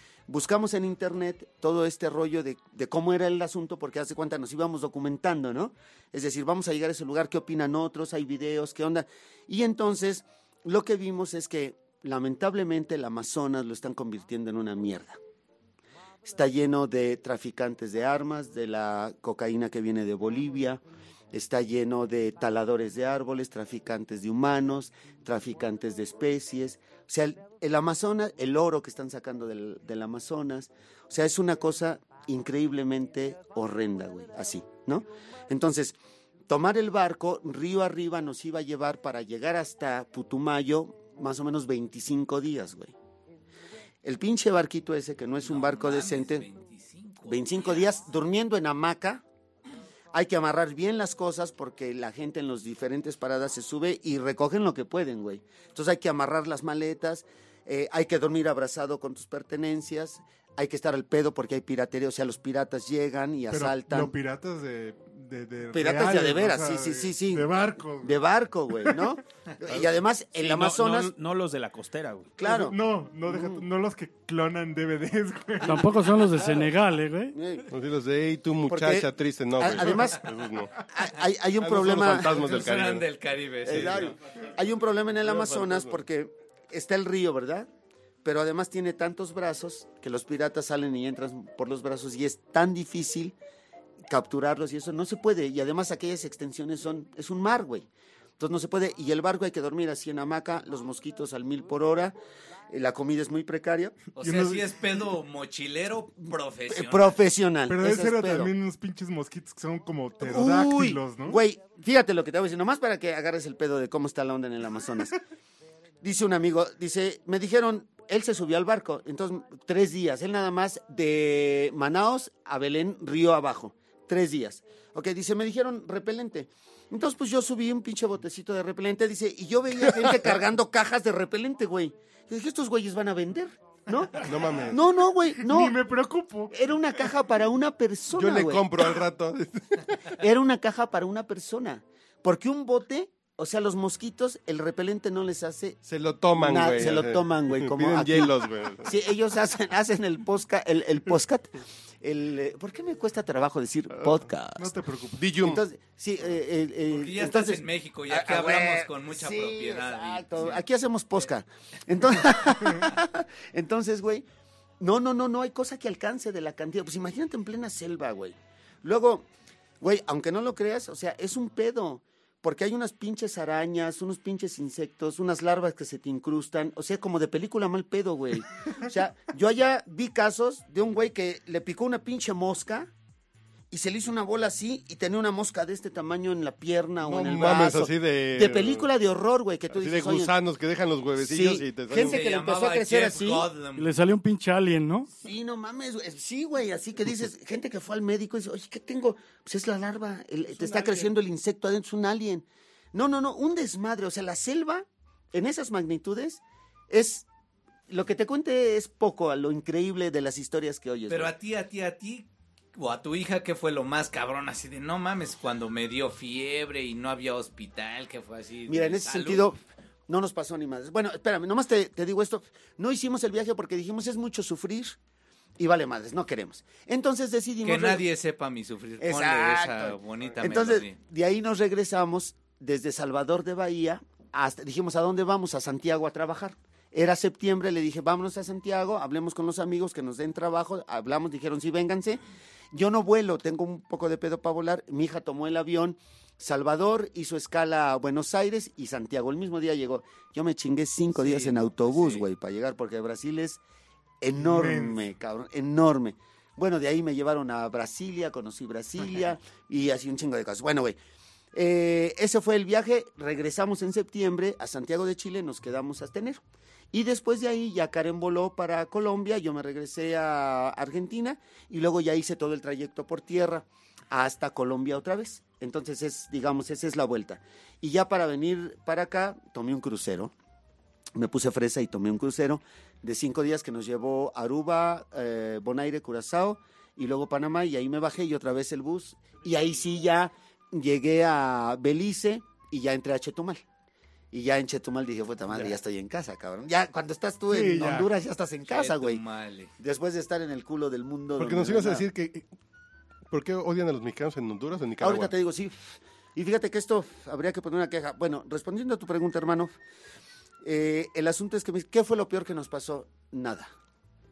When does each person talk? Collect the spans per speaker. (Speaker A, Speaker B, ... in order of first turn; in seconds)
Speaker A: 0.3-15.2, 16.2-20.8, 21.3-35.9, 36.5-42.9, 44.0-46.5, 47.3-49.2, 50.1-64.1, 65.7-67.5, 68.0-71.1, 72.4-72.8, 73.3-73.6, 77.3-77.7, 78.7-80.2, 80.9-82.4, 83.6-87.7, 88.2-93.3, 94.1-97.9, 98.4-102.2, 102.7-104.0, 106.7-108.5, 110.2-115.2, 116.0-135.8, 136.5-138.8, 140.1-145.8, 146.3-151.5, 152.0-154.7, 155.4-164.3, 164.8-169.3, 169.8-182.9, 183.7-190.3, 191.2-193.5, 195.1-207.3, 207.9-211.3, 218.7-224.9, 225.6-228.1, 229.0-242.2, 242.7-253.6, 254.2-261.0, 261.5-266.4, 266.9-280.3, 281.1-293.6, 294.3-299.2, 299.8-302.1, 305.0-309.7, 310.6-313.7
Speaker B: 45.4-47.8, 82.3-84.1, 104.2-107.2, 156.9-160.6, 192.0-193.9, 211.1-219.5, 227.6-231.0, 251.1-252.2, 298.7-299.7
Speaker C: 63.5-68.2, 68.8-69.1, 72.4-76.0, 104.2-104.8, 107.7-111.4, 135.4-136.6, 154.6-155.3, 254.4-255.0, 297.5-298.1
Speaker D: 70.3-72.3
Speaker E: 75.6-77.4, 193.8-195.1
Speaker F: 77.7-80.8, 81.6-83.0, 83.7-84.1, 85.2-86.0, 134.2-134.8, 138.1-140.0, 145.9-148.9, 155.2-155.6, 187.0-188.9, 189.7-192.2, 301.4-302.4, 303.3-305.3